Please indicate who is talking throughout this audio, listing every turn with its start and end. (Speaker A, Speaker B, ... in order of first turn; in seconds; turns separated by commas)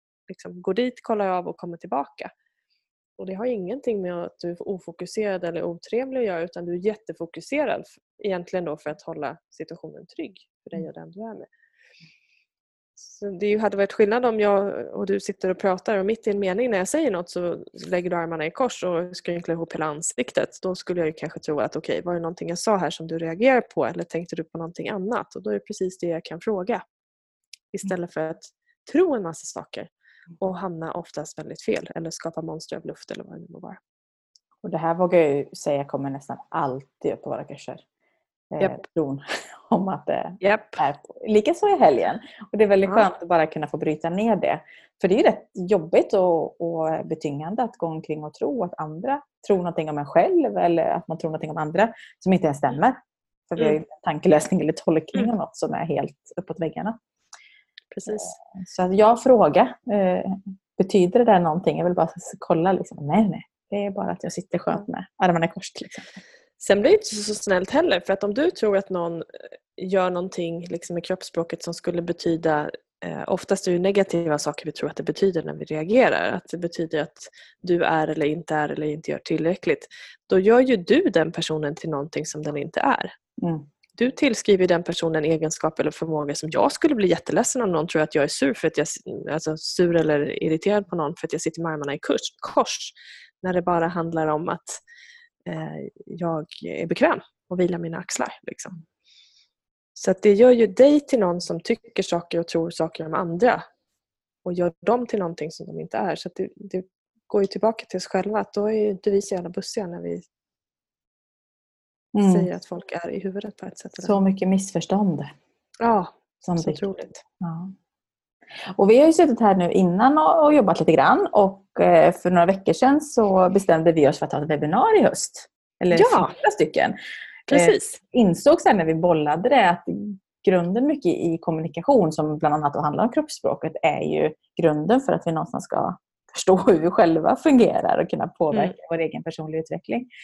Speaker A: 0.3-2.3, Speaker A: 3.2-11.5, Speaker A: 13.0-26.8, Speaker A: 27.7-33.8, Speaker B: 34.6-37.8, Speaker B: 38.5-57.0, Speaker A: 40.4-40.8, Speaker A: 57.9-58.4, Speaker B: 58.1-66.2, Speaker A: 66.6-69.2, Speaker A: 69.8-83.1, Speaker B: 83.4-83.7, Speaker A: 84.0-94.8, Speaker A: 95.5-98.8, Speaker A: 100.0-103.7, Speaker A: 104.5-110.3, Speaker B: 112.1-112.5, Speaker A: 112.2-114.2, Speaker B: 114.0-115.3, Speaker A: 115.8-117.2, Speaker B: 116.4-116.9, Speaker B: 117.4-117.7, Speaker B: 118.7-127.0, Speaker A: 125.9-126.4, Speaker A: 127.5-128.0, Speaker B: 127.5-140.1